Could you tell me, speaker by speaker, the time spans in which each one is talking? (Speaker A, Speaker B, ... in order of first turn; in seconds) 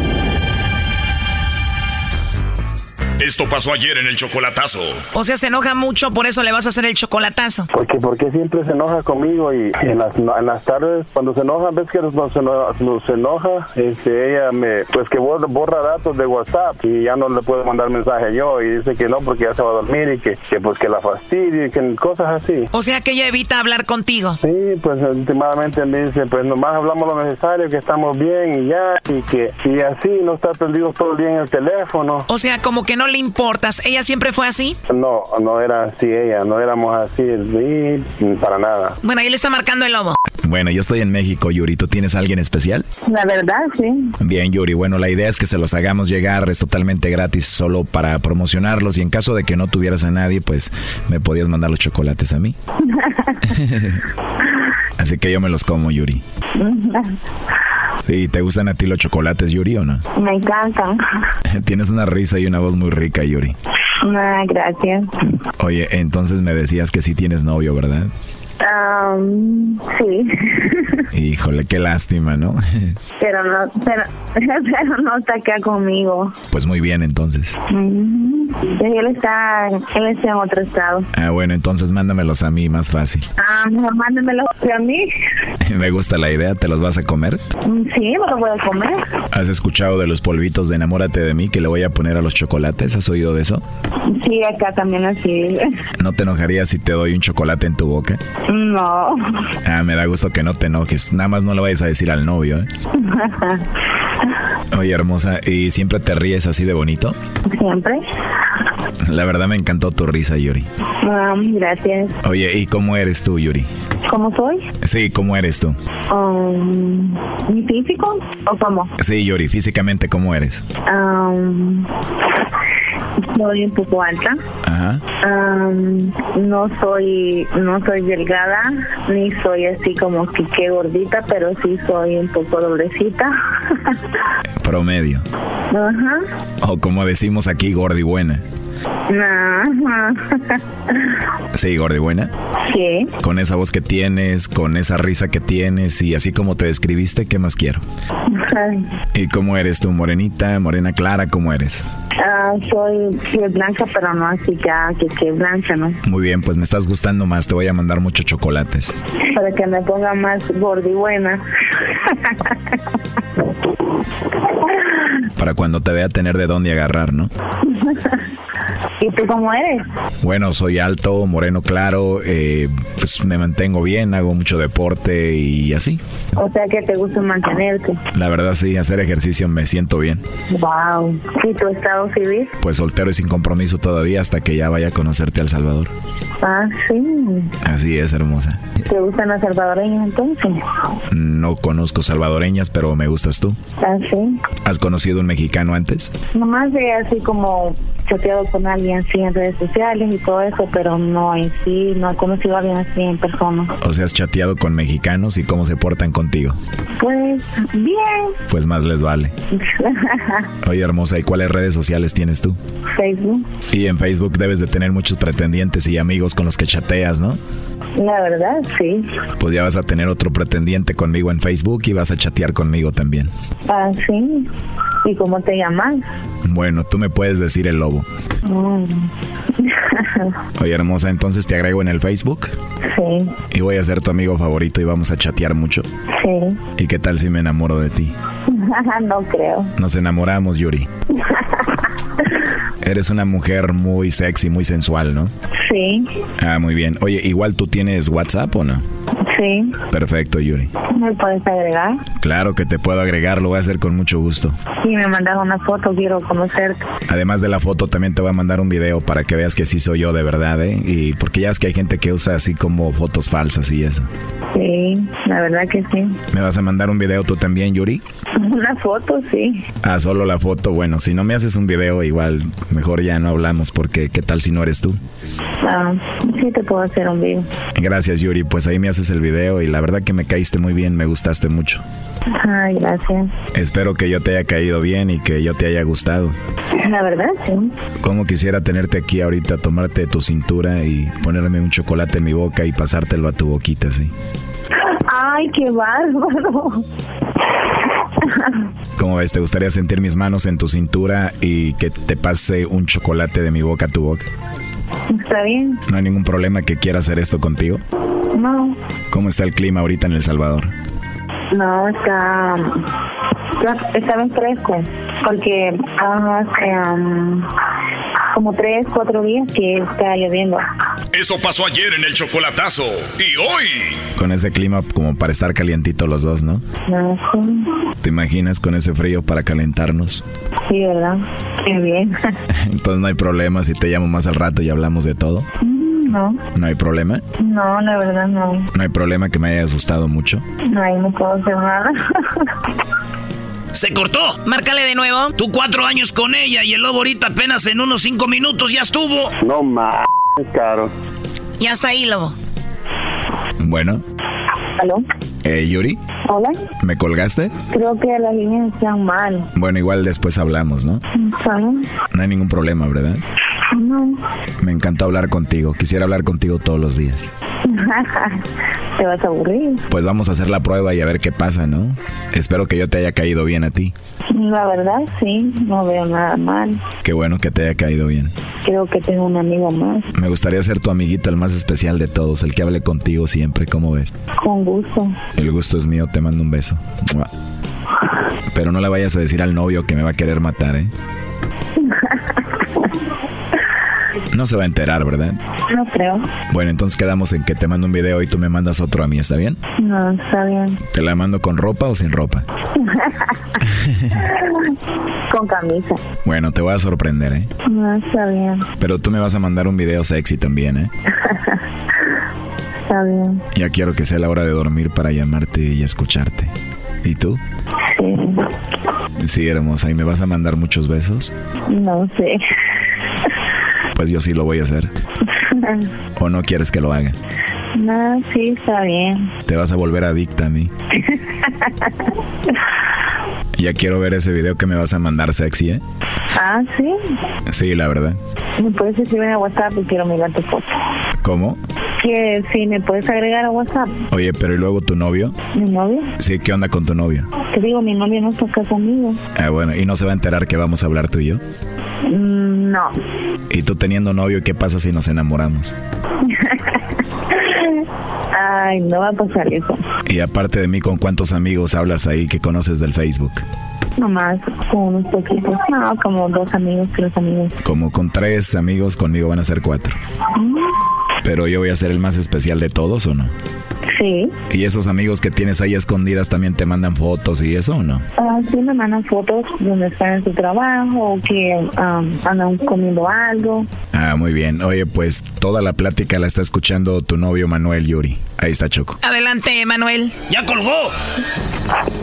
Speaker A: 3.2-5.0, 321.1-324.1
Speaker B: 5.1-7.7, 22.7-24.4, 32.3-34.8, 39.0-40.1, 344.4-345.3, 351.6-352.3, 489.0-490.1
Speaker C: 7.7-22.7, 24.4-32.2, 34.9-39.0, 349.4-350.9
Speaker D: 40.4-42.8, 44.2-52.5, 55.0-56.2, 58.1-60.0, 61.5-63.5, 65.6-68.1, 71.1-72.9, 76.5-77.5, 81.1-83.2, 85.7-87.4, 89.3-93.6, 96.0-98.2, 99.6-102.7, 104.7-107.2, 109.0-110.7, 112.2-113.7, 114.8-115.8, 119.0-120.6, 124.6-125.0, 134.6-135.2, 136.6-138.4, 141.5-142.3, 143.2-147.8, 149.1-151.8, 156.1-158.9, 165.4-167.3, 170.2-176.0, 178.1-180.2, 182.6-185.9, 187.6-188.6, 191.1-193.6, 194.6-196.1, 203.8-206.6, 208.5-209.3, 210.6-212.6, 213.7-217.4, 219.4-223.3, 226.4-228.1, 230.6-232.5, 233.5-235.9, 236.8-238.1, 239.8-240.9, 242.8-245.3, 246.4-248.8, 249.9-250.7, 252.2-254.5, 257.1-264.1, 266.3-268.0, 269.8-275.0, 277.8-281.8, 283.5-286.4, 288.0-294.1, 299.0-304.2, 305.9-307.8, 309.1-310.7, 324.1-326.6, 328.0-330.2, 332.7-335.4, 336.5-337.2, 338.7-340.4, 353.6-354.0, 355.4-356.0, 356.8-357.5, 359.5-361.0, 362.1-363.2, 364.6-367.3, 369.9-373.9, 377.0-378.3, 380.1-384.1, 385.4-387.3, 388.5-390.9, 394.3-395.4, 396.5-399.6, 400.9-402.4, 406.2-407.5, 408.8-410.9, 413.5-416.5, 417.0-417.4, 419.2-421.3, 423.9-424.9, 426.2-427.1, 429.4-430.7, 433.5-435.8, 437.5-438.2, 441.2-441.6, 444.1-445.3, 446.2-447.2, 449.4-451.4, 453.5-455.7, 460.1-463.4, 467.6-469.9, 471.2-473.3, 474.5-478.0, 483.9-488.9
Speaker E: 43.1-44.1, 53.0-53.3, 56.6-57.1, 60.1-61.0, 64.0-65.1, 68.6-70.9, 73.2-76.3, 77.7-81.0, 83.4-85.1, 87.6-89.0, 94.1-95.6, 98.5-99.2, 103.0-103.6, 107.5-108.0, 111.0-112.1, 114.1-114.7, 116.1-118.9, 120.8-121.9, 123.3-124.4, 125.2-133.3, 135.7-136.2, 139.1-140.6, 142.7-143.1, 148.3-148.8, 152.2-156.0, 159.3-161.4, 162.1-162.5, 167.7-168.1, 169.0-169.8, 176.4-178.0, 180.5-182.5, 186.4-187.5, 188.9-190.6, 193.8-194.3, 196.3-203.7, 207.0-208.3, 209.6-210.4, 212.9-213.4, 218.0-219.1, 223.7-224.5, 225.0-226.0, 228.4-229.1, 229.6-230.3, 232.9-233.3, 236.2-236.6, 238.5-239.7, 245.7-246.1, 249.3-249.7, 250.9-252.0, 254.8-256.8, 264.5-266.1, 268.4-269.6, 275.6-277.5, 282.4-283.3, 286.8-287.7, 295.1-296.8, 298.2-298.5, 305.1-305.8, 308.3-308.8, 311.5-312.8, 313.6-317.5, 318.3-320.6, 326.9-327.6, 330.7-332.1, 335.6-336.4, 337.4-338.6, 340.7-342.4, 354.8-355.0, 356.3-356.6, 357.7-359.5, 361.1-361.8, 363.7-364.2, 367.6-368.4, 369.0-369.8, 374.3-376.8, 378.6-380.1, 384.4-385.2, 395.7-396.3, 399.8-400.8, 402.8-403.1, 405.3-406.0, 407.6-408.6, 411.2-411.6, 412.9-413.4, 417.9-418.4, 421.7-422.4, 425.5-425.9, 427.7-429.3, 431.1-431.9, 436.3-436.9, 438.6-440.7, 442.0-443.9, 445.5-446.1, 447.5-449.2, 452.1-452.9, 456.3-456.6, 458.3-459.8, 464.0-467.5, 473.9-474.3, 478.2-483.7
Speaker F: 343.7-344.4, 345.4-349.3, 490.3-490.9